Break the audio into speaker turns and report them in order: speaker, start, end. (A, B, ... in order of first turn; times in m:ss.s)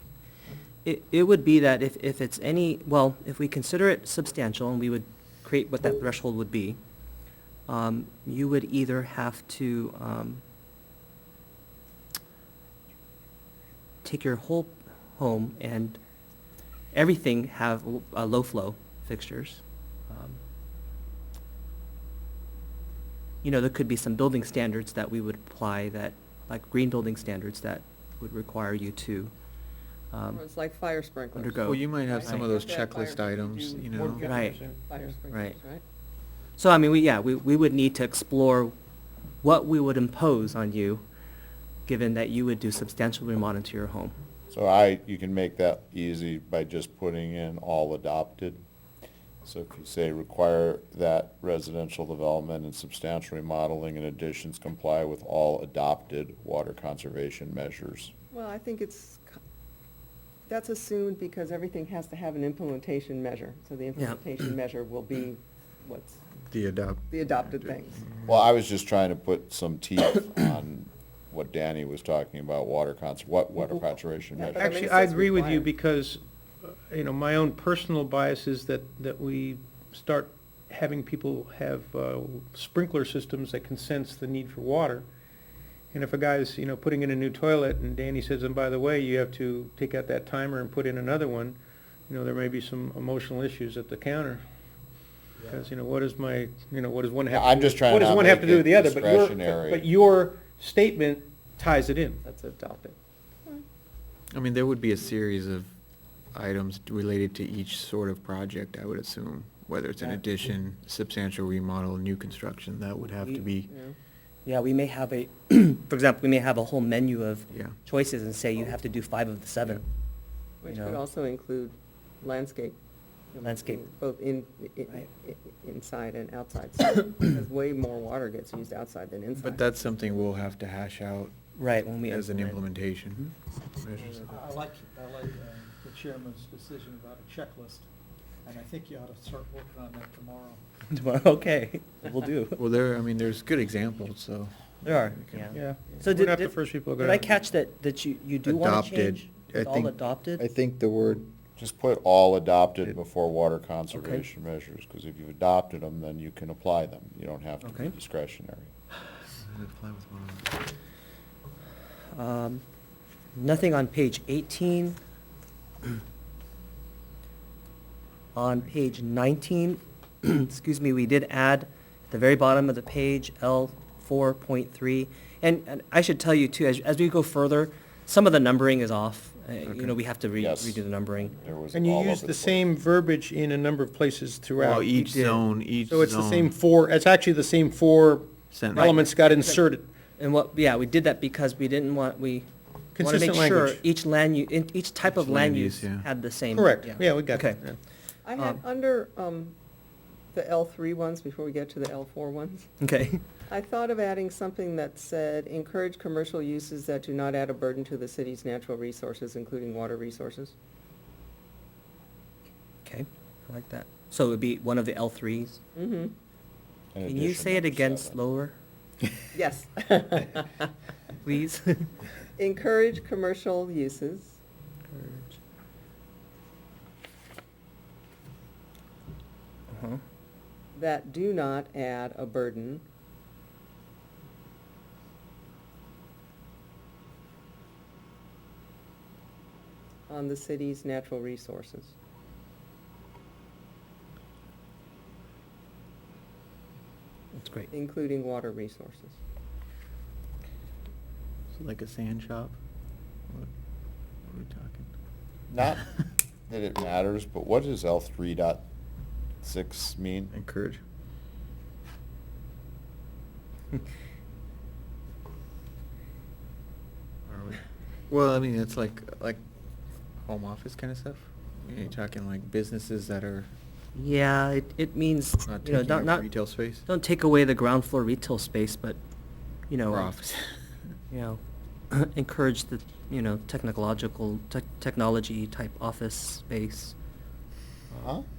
0:00.8-0:06.8 A
0:07.7-0:10.4 A
0:14.0-0:16.0 A
0:16.9-0:20.4 A
0:23.4-0:29.3 A
0:30.1-0:30.4 A
0:30.3-0:35.8 B
0:31.4-0:32.5 A
0:31.6-0:34.2 C
0:33.9-0:35.0 D
0:34.2-0:34.6 A
0:35.3-0:35.6 A
0:36.6-0:38.7 A
0:39.4-0:41.0 A
0:41.9-0:44.1 A
0:44.5-0:48.6 E
0:49.4-0:58.1 E
0:58.3-0:59.3 B
1:00.5-1:06.2 B
1:06.5-1:08.2 C
1:07.1-1:08.0 B
1:08.2-1:14.7 E
1:14.3-1:15.7 B
1:14.5-1:25.0 D
1:25.9-1:34.4 D
1:35.4-1:42.2 D
1:37.3-1:39.8 E
1:42.2-1:43.6 B
1:44.3-1:45.7 C
1:46.3-1:53.7 C
1:53.7-1:54.0 B
1:54.4-1:59.8 A
1:57.5-1:57.8 C
2:00.6-2:02.8 B
2:00.7-2:01.0 A
2:03.3-2:09.8 B
2:03.4-2:03.8 A
2:09.4-2:11.3 C
2:11.6-2:12.6 A
2:12.0-2:14.3 C
2:14.0-2:17.8 F
2:18.4-2:20.6 F
2:20.9-2:22.6 A
2:22.6-2:25.5 C
2:24.8-2:30.4 A
2:25.5-2:27.3 D
2:28.4-2:31.2 C
2:31.6-2:38.7 E
2:33.9-2:34.2 A
2:37.6-2:37.9 A
2:39.4-2:40.6 C
2:42.1-2:42.6 A
2:43.3-2:45.0 A
2:48.3-3:01.4 A
2:59.7-2:59.9 C
3:00.4-3:02.7 E
3:01.7-3:05.3 D
3:04.6-3:06.5 C
3:05.8-3:09.9 D
3:08.5-3:09.0 C
3:08.7-3:09.6 A
3:10.2-3:12.4 A
3:13.0-3:13.8 D
3:13.0-3:17.6 A
3:15.0-3:16.0 C
3:16.5-3:17.8 D
3:18.2-3:19.5 B
3:20.3-3:22.7 B
3:22.8-3:23.2 A
3:23.5-3:30.5 B
3:32.8-3:35.6 A
3:35.8-3:36.1 B
3:36.9-3:38.2 E
3:37.0-3:38.5 A
3:39.3-3:40.7 B
3:41.2-3:41.9 A
3:42.4-3:44.4 B
3:44.9-3:45.3 A
3:49.7-3:50.0 A
3:50.7-3:52.8 B
4:00.1-4:01.9 B
4:07.3-4:07.7 A
4:07.7-4:09.2 B
4:11.5-4:12.6 C
4:14.2-4:14.9 C
4:15.5-4:15.8 E
4:16.5-4:18.6 E
4:19.4-4:20.3 E
4:20.3-4:20.8 C
4:27.3-4:29.4 C
4:30.2-4:33.5 C
4:33.9-4:36.3 A
4:35.4-4:36.8 C
4:36.9-4:39.0 A
4:39.7-4:40.1 A
4:39.9-4:40.6 C
4:41.1-4:41.4 A
4:41.9-4:46.9 A
4:48.0-4:48.2 E